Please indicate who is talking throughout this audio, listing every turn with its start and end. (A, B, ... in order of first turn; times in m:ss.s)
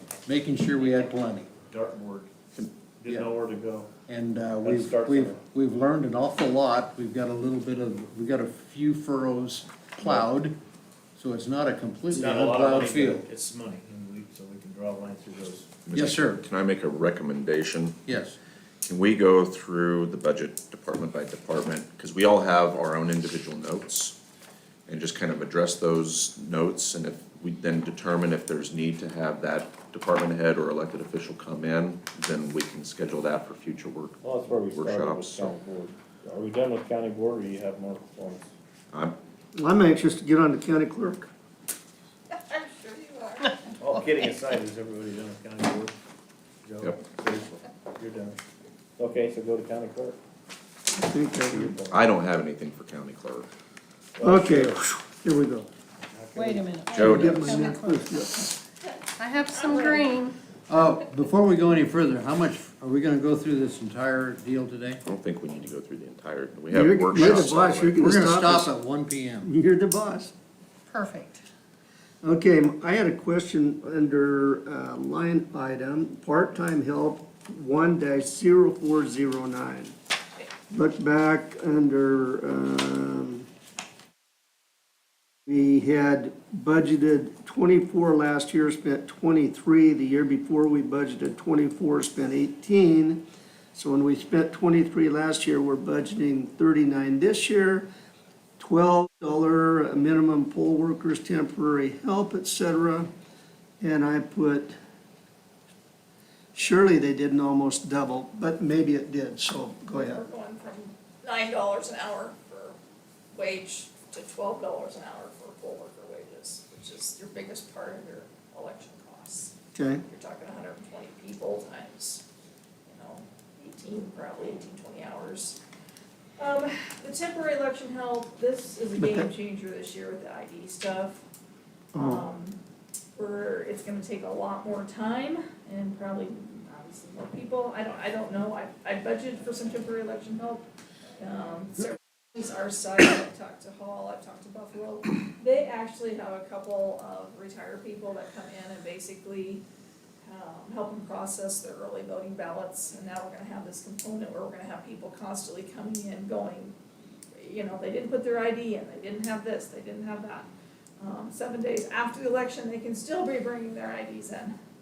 0:00.3-0:01.5 A
0:01.7-0:02.4 B
0:02.6-0:03.2 A
0:03.0-0:03.9 B
0:04.1-0:10.5 A
0:04.6-0:05.4 B
0:11.2-0:13.3 A
0:12.1-0:15.8 B
0:15.8-0:18.3 C
0:15.9-0:16.4 A
0:18.1-0:18.4 A
0:18.8-0:24.2 C
0:24.9-0:35.6 C
0:34.2-0:38.4 B
0:38.9-0:39.2 C
0:39.6-0:41.3 D
0:42.3-0:43.7 E
0:43.8-0:46.0 B
0:46.6-0:48.4 B
0:46.8-0:47.1 C
0:49.0-0:50.2 B
0:50.9-0:51.7 D
0:51.5-0:52.0 B
0:51.9-0:53.5 C
0:54.2-0:54.8 B
0:54.2-0:55.7 D
0:56.1-0:56.8 B
0:56.4-0:58.2 F
0:56.9-0:57.5 C
0:57.0-0:58.6 D
0:59.2-1:00.4 F
0:59.7-1:00.0 E
1:00.7-1:05.0 A
1:05.0-1:08.0 C
1:06.7-1:08.7 D
1:07.2-1:09.5 A
1:09.4-1:10.3 D
1:10.9-1:11.4 F
1:12.2-1:20.0 D
1:20.7-1:23.4 D
1:25.5-1:37.9 D
1:38.6-1:43.1 D
1:43.8-1:44.8 D
1:46.5-1:50.2 D
1:49.9-1:52.8 E
1:53.3-1:59.5 E
1:59.8-2:00.0 D
2:00.1-2:02.2 E
2:02.9-2:05.6 E
2:06.4-2:11.2 E
2:09.0-2:09.3 D
2:11.9-2:12.3 D
2:12.0-2:12.6 E
2:13.2-2:20.7 E
2:21.2-2:29.6 E
2:30.2-2:36.8 E
2:37.4-2:40.5 E
2:41.0-2:44.6 E